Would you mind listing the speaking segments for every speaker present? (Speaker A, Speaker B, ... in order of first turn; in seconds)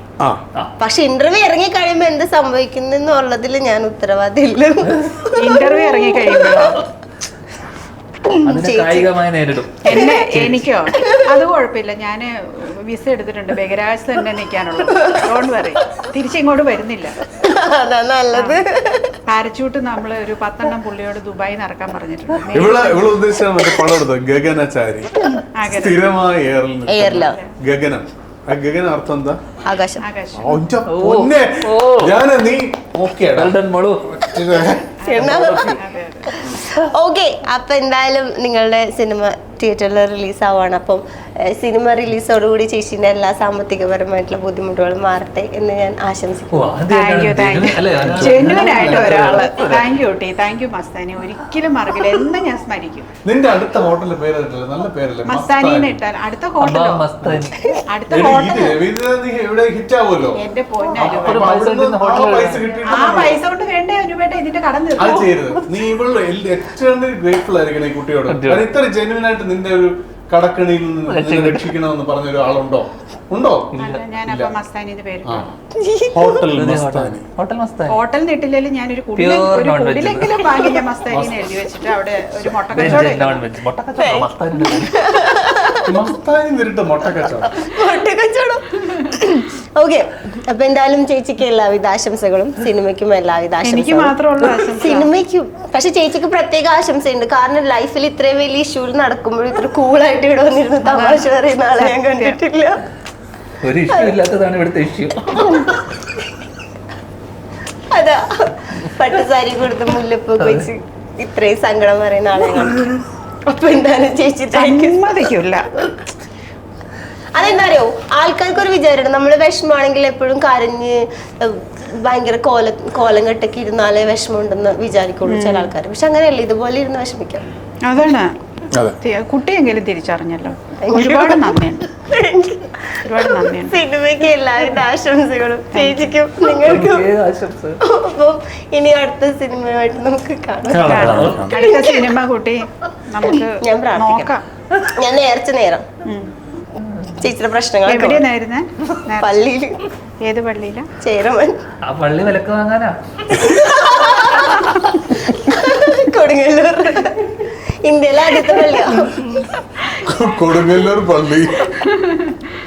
Speaker A: 0.8-5.2, 8.3-9.1, 17.4-19.2, 26.9-27.4, 29.6-30.1, 35.0-35.8, 36.4-46.8, 75.8-76.5, 84.0-85.9, 87.7-94.2, 94.8-102.8, 105.4-105.7, 107.9-112.8, 113.5-115.0, 117.3-127.5, 130.8-137.1, 137.8-142.1, 143.6-144.3, 144.9-145.9, 147.2-148.2, 149.2-149.8, 151.0-151.6, 153.4-154.7, 155.3-159.4
Speaker B: 4.9-5.3, 8.4-10.7, 30.9-32.2, 33.4-34.1, 35.2-35.8, 46.5-49.9, 56.6-57.6, 61.1-62.6, 68.3-68.7, 71.1-71.7, 73.7-74.0, 76.5-78.0, 79.2-80.5, 82.7-85.1, 103.6-105.7, 110.4-110.7, 136.6-137.8, 141.0-141.4, 146.8-147.1, 151.9-153.4
Speaker C: 5.4-6.8, 9.8-17.2, 18.3-18.6, 19.3-23.1, 25.6-26.1, 27.1-27.5, 30.0-30.6, 35.0-36.4, 46.9-53.1, 55.2-57.1, 57.9-58.8, 60.4-61.5, 62.6-65.4, 73.8-75.5, 77.9-83.5, 93.6-95.1, 100.9-102.4, 114.5-115.7, 125.3-125.7, 127.8-128.3, 129.0-131.9, 133.0-133.8, 135.7-136.1, 140.7-144.4, 146.1-146.3, 147.9-149.4, 150.2-150.9, 154.0-155.0, 161.7-162.4
Speaker D: 22.5-25.1, 25.7-29.4, 30.3-34.9, 48.0-49.5, 53.2-56.0, 57.2-57.5, 58.1-60.4, 61.0-63.4, 65.0-73.7, 74.3-74.5, 75.3-75.5, 76.1-77.2, 81.1-81.5, 82.4-83.1, 85.9-87.5, 140.7-141.6, 160.0-161.7